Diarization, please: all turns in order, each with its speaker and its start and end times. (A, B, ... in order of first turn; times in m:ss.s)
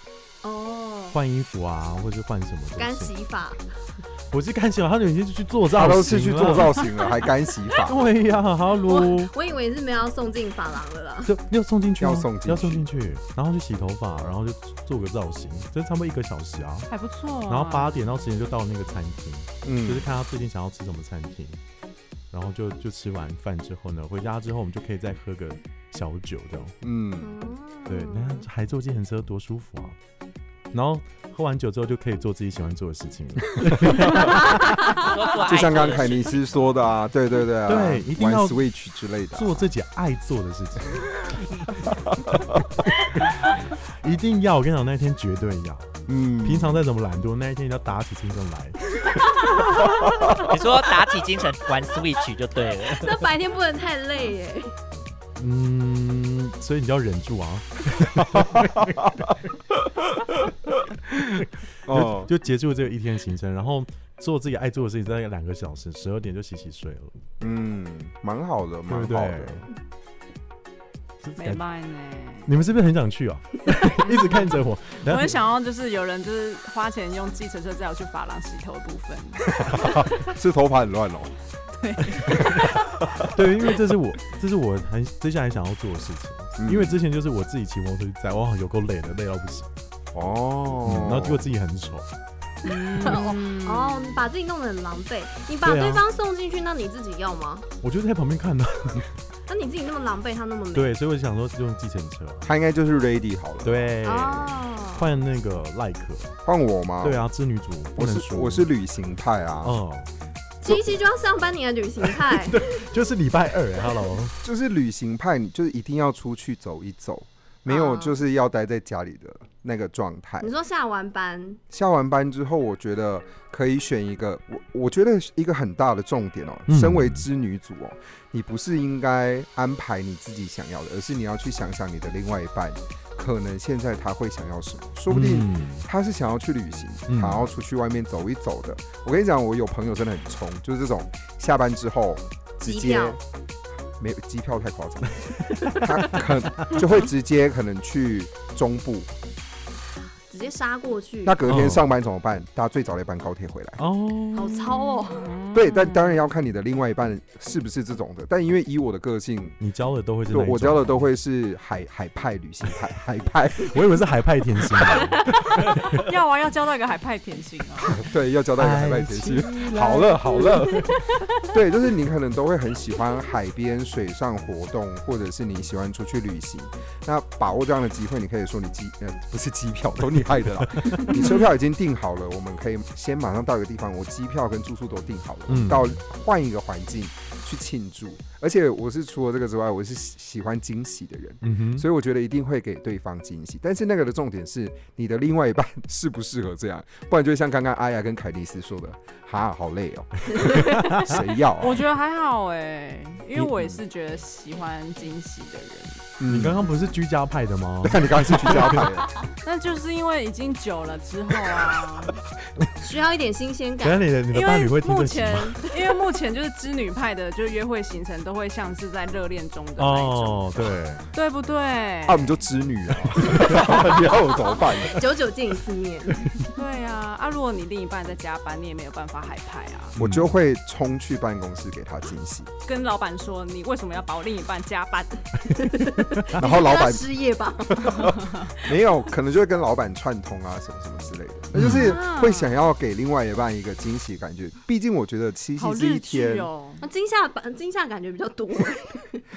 0:00.4-0:01.2 A
0:01.1-0:03.1 B
0:02.8-0:03.6 A
0:04.3-0:06.9 B
0:05.7-0:08.0 C
0:07.8-0:09.3 B
0:08.8-0:11.3 A
0:11.2-0:16.9 B
0:12.0-0:12.9 C
0:16.9-0:18.0 D
0:17.5-0:21.6 B
0:19.6-0:20.1 C
0:22.3-0:26.7 B
0:26.8-0:27.3 C
0:27.2-0:28.5 A
0:27.9-0:30.0 B
0:30.7-0:35.1 B
0:33.8-0:34.5 C
0:34.8-0:36.5 E
0:35.4-0:39.6 C
0:37.7-0:38.6 B
0:39.3-0:48.8 B
0:46.1-0:46.8 C
0:50.4-0:53.2 E
0:52.9-0:54.8 A
0:55.4-0:59.4 B
1:01.4-1:07.1 B
1:01.9-1:02.3 C
1:07.4-1:09.7 C
1:08.9-1:09.7 B
1:11.2-1:11.6 B
1:11.4-1:12.5 D
1:12.5-1:15.4 B
1:14.0-1:19.7 D
1:19.7-1:21.3 C
1:21.8-1:22.6 D
1:22.2-1:22.5 C
1:22.3-1:29.7 B
1:26.6-1:27.0 C
1:30.1-1:31.5 C
1:30.8-1:32.1 B
1:32.6-1:34.3 D
1:32.6-1:37.7 A
1:35.6-1:36.0 B
1:37.8-1:39.1 B
1:39.5-1:41.0 A
1:40.7-1:42.5 B
1:42.4-1:44.0 C
1:43.6-1:46.4 B
1:44.0-1:45.2 A
1:46.5-1:47.2 C
1:47.0-1:48.7 B
1:48.0-1:49.8 C
1:49.6-1:50.1 B
1:50.6-1:52.7 A
1:52.3-1:54.4 B
1:54.4-2:00.5 C
1:57.7-1:58.2 A
2:00.4-2:01.6 A
2:01.7-2:23.2 C
2:06.7-2:07.2 B
2:15.1-2:15.9 B
2:17.1-2:17.4 B
2:22.6-2:23.2 A
2:24.0-2:29.1 C
2:25.5-2:26.8 B
2:30.3-2:31.5 A
2:31.2-2:33.8 C
2:31.5-2:31.8 B
2:33.8-2:34.9 B
2:34.4-2:35.3 A
2:35.1-2:36.2 D
2:35.5-2:39.6 C
2:39.6-2:41.0 B
2:40.3-2:43.8 C
2:43.6-2:46.0 B
2:44.8-2:48.0 D
2:48.0-2:50.9 C
2:48.6-2:50.6 B
2:51.5-3:21.8 C
3:00.8-3:01.2 B
3:05.5-3:06.0 B
3:11.4-3:11.9 B
3:20.5-3:21.2 B
3:21.6-3:26.1 D
3:26.2-3:26.7 C
3:26.3-3:28.9 B
3:27.8-3:29.1 C
3:29.4-3:32.2 D
3:32.8-3:34.2 A
3:33.8-3:35.6 B
3:34.3-3:40.4 D
3:39.8-3:41.0 B
3:41.1-3:42.4 D
3:42.1-3:45.0 C
3:43.1-3:43.7 B
3:44.5-3:46.5 A
3:46.6-3:49.9 D
3:50.0-3:50.3 B
3:50.0-3:52.5 C
3:52.6-3:55.5 D
3:55.5-3:58.7 A
3:56.4-3:57.0 C
3:57.8-4:06.5 C
4:01.5-4:02.0 B
4:01.7-4:02.6 D
4:05.6-4:06.8 D
4:06.8-4:09.2 A